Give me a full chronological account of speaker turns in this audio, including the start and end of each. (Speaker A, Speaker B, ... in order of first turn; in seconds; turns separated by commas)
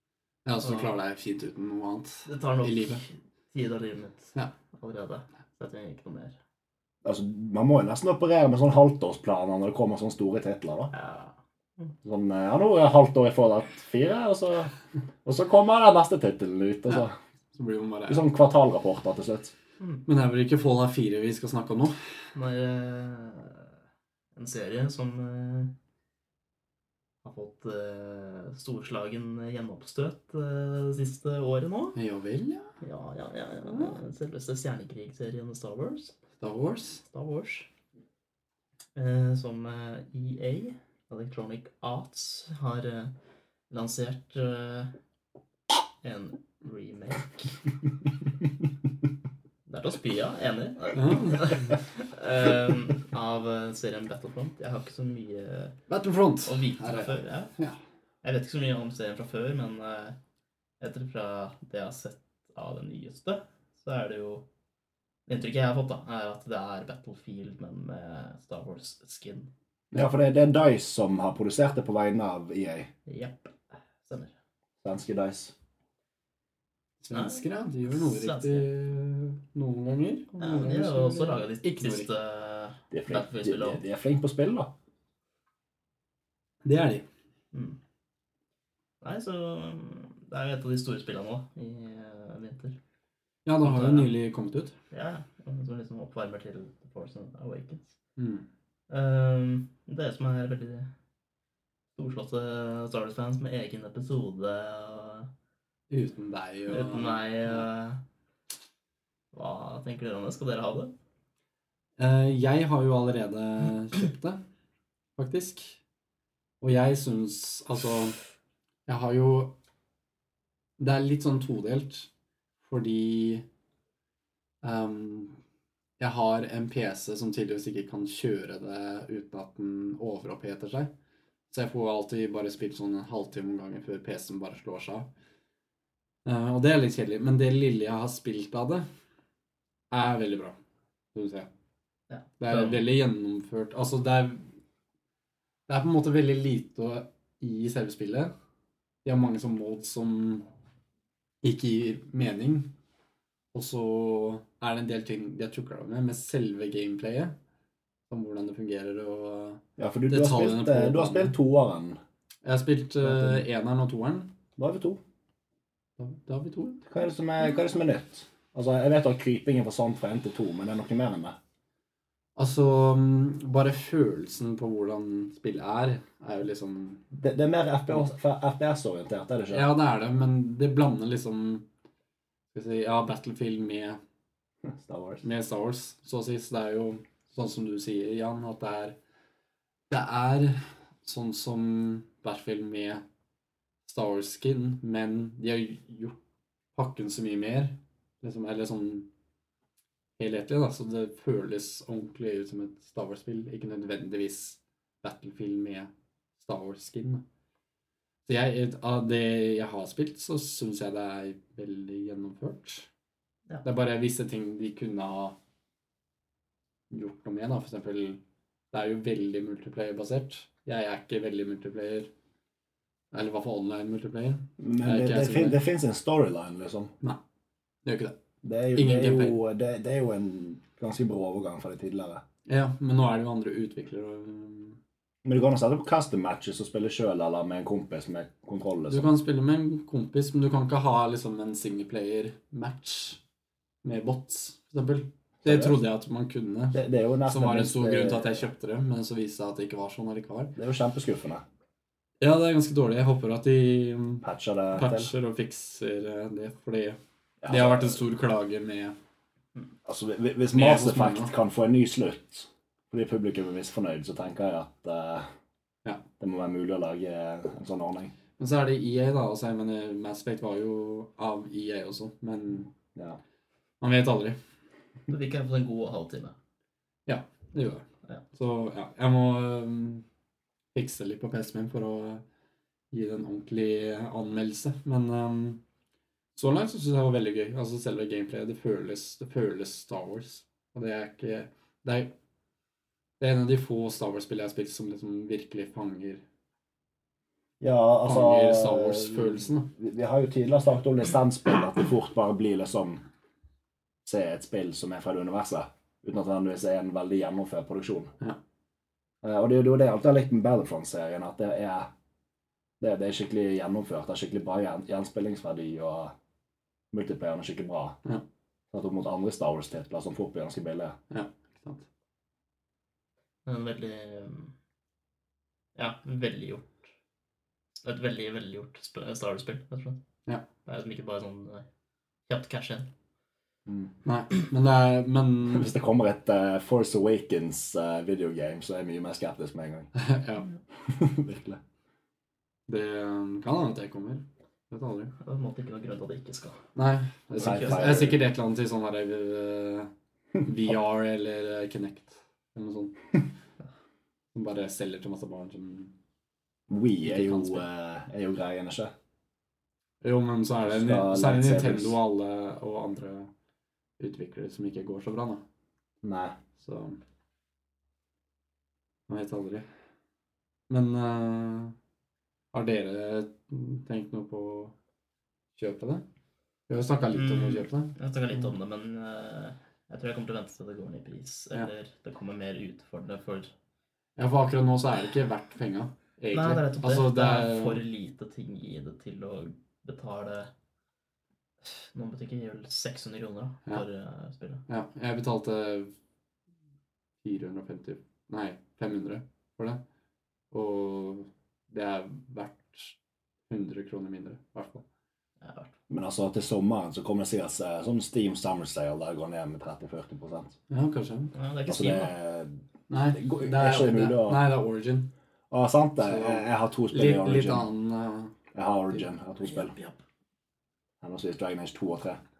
Speaker A: 0.5-3.0, Speaker B: 0.6-0.9, Speaker B: 2.3-6.3, Speaker C: 7.0-10.9, Speaker B: 10.9-11.9, Speaker C: 12.0-14.7, Speaker C: 15.2-17.1, Speaker A: 17.5-18.3, Speaker C: 18.1-19.5, Speaker A: 20.1-22.0, Speaker B: 22.4-23.7, Speaker B: 24.4-25.7, Speaker B: 27.2-32.0, Speaker A: 31.9-32.7, Speaker B: 32.8-36.1, Speaker A: 36.4-37.0, Speaker B: 37.1-37.7, Speaker B: 39.0-43.1, Speaker B: 43.7-44.9, Speaker B: 46.0-47.5, Speaker B: 49.7-55.8, Speaker A: 51.0-51.7, Speaker A: 55.9-57.8, Speaker B: 56.5-57.5, Speaker B: 58.2-60.2, Speaker B: 60.8-64.5, Speaker B: 65.3-69.5, Speaker C: 69.9-72.9, Speaker B: 73.1-73.5, Speaker B: 74.0-74.3, Speaker C: 74.8-75.5, Speaker A: 77.0-82.1, Speaker B: 77.1-78.7, Speaker B: 80.4-83.8, Speaker C: 82.9-84.7, Speaker A: 86.7-87.1, Speaker B: 87.5-87.8, Speaker B: 89.0-92.8, Speaker A: 93.5-94.7, Speaker B: 93.6-94.1, Speaker B: 94.9-98.0, Speaker A: 98.2-98.5, Speaker B: 98.9-100.9, Speaker B: 102.0-105.3, Speaker A: 105.9-107.6, Speaker B: 106.7-108.0, Speaker B: 109.3-110.9, Speaker A: 112.0-114.4, Speaker A: 115.2-115.8, Speaker A: 116.6-118.2, Speaker A: 118.9-119.5, Speaker A: 120.8-122.1, Speaker A: 122.6-123.5, Speaker A: 124.6-125.3, Speaker A: 126.0-130.9, Speaker A: 131.5-135.1, Speaker A: 136.2-138.9, Speaker A: 139.9-140.6, Speaker A: 141.1-141.5, Speaker B: 142.1-142.9, Speaker A: 142.4-144.5, Speaker A: 145.7-148.3, Speaker A: 149.1-150.4, Speaker A: 151.4-152.7, Speaker A: 153.5-157.3, Speaker A: 158.1-161.4, Speaker C: 159.8-162.0, Speaker A: 162.4-164.3, Speaker C: 163.0-163.4, Speaker C: 164.6-165.0, Speaker A: 166.0-166.8, Speaker C: 166.9-171.4, Speaker A: 172.4-177.0, Speaker C: 177.1-179.7, Speaker A: 179.5-181.7, Speaker A: 182.5-184.0, Speaker C: 184.7-185.2, Speaker A: 185.2-189.0, Speaker A: 189.9-193.0, Speaker A: 193.9-196.2, Speaker A: 196.8-199.1, Speaker A: 200.2-207.2, Speaker A: 208.3-212.9, Speaker A: 213.6-215.4, Speaker A: 216.9-218.2, Speaker A: 218.7-222.1, Speaker A: 223.1-225.6, Speaker C: 224.6-226.9, Speaker A: 227.8-228.2, Speaker C: 228.4-232.2, Speaker A: 228.8-229.4, Speaker A: 232.5-234.8, Speaker C: 235.2-239.1, Speaker A: 238.9-243.2, Speaker A: 243.8-250.5, Speaker C: 245.4-245.8, Speaker C: 246.7-248.4, Speaker C: 250.6-251.4, Speaker A: 252.2-258.9, Speaker C: 254.2-255.1, Speaker C: 257.4-258.0, Speaker C: 259.9-265.3, Speaker A: 260.5-261.3, Speaker C: 266.2-268.1, Speaker A: 268.4-272.7, Speaker A: 273.8-274.4, Speaker B: 275.1-276.3, Speaker A: 277.1-280.0, Speaker A: 280.7-282.2, Speaker A: 282.9-285.6, Speaker A: 286.4-292.1, Speaker A: 293.2-296.2, Speaker C: 297.6-303.0, Speaker A: 298.1-299.7, Speaker C: 304.1-308.1, Speaker C: 309.2-311.9, Speaker C: 312.8-316.1, Speaker C: 316.9-318.0, Speaker C: 318.7-321.0, Speaker A: 321.1-321.9, Speaker B: 323.5-324.5, Speaker B: 325.8-326.8, Speaker B: 327.8-330.0, Speaker B: 330.7-331.6, Speaker B: 332.3-332.9, Speaker A: 334.1-335.7, Speaker C: 335.5-339.9, Speaker A: 339.9-340.5, Speaker C: 340.9-341.6, Speaker A: 342.7-345.1, Speaker B: 345.2-346.6, Speaker A: 346.8-349.9, Speaker B: 347.4-348.1, Speaker C: 347.4-348.2, Speaker A: 350.4-353.0, Speaker A: 354.3-355.9, Speaker C: 356.7-358.9, Speaker A: 357.0-357.6, Speaker A: 360.0-363.3, Speaker C: 360.7-362.0, Speaker A: 364.0-365.4, Speaker C: 366.0-366.4, Speaker A: 366.6-367.0, Speaker A: 369.1-369.7, Speaker A: 370.7-371.8, Speaker A: 372.5-374.7, Speaker A: 375.6-376.0, Speaker A: 376.7-377.9, Speaker B: 377.1-383.5, Speaker A: 384.2-387.8, Speaker B: 386.3-390.5, Speaker B: 391.6-394.6, Speaker A: 394.7-395.9, Speaker A: 397.2-399.8, Speaker A: 400.5-402.9, Speaker A: 403.5-404.8, Speaker B: 405.4-405.7, Speaker C: 405.9-410.5, Speaker A: 410.7-411.3, Speaker B: 411.3-412.1, Speaker C: 411.7-412.6, Speaker A: 412.9-415.1, Speaker C: 413.1-414.5, Speaker C: 415.5-417.7, Speaker A: 416.0-418.4, Speaker C: 418.5-419.7, Speaker B: 419.5-420.0, Speaker C: 421.0-422.2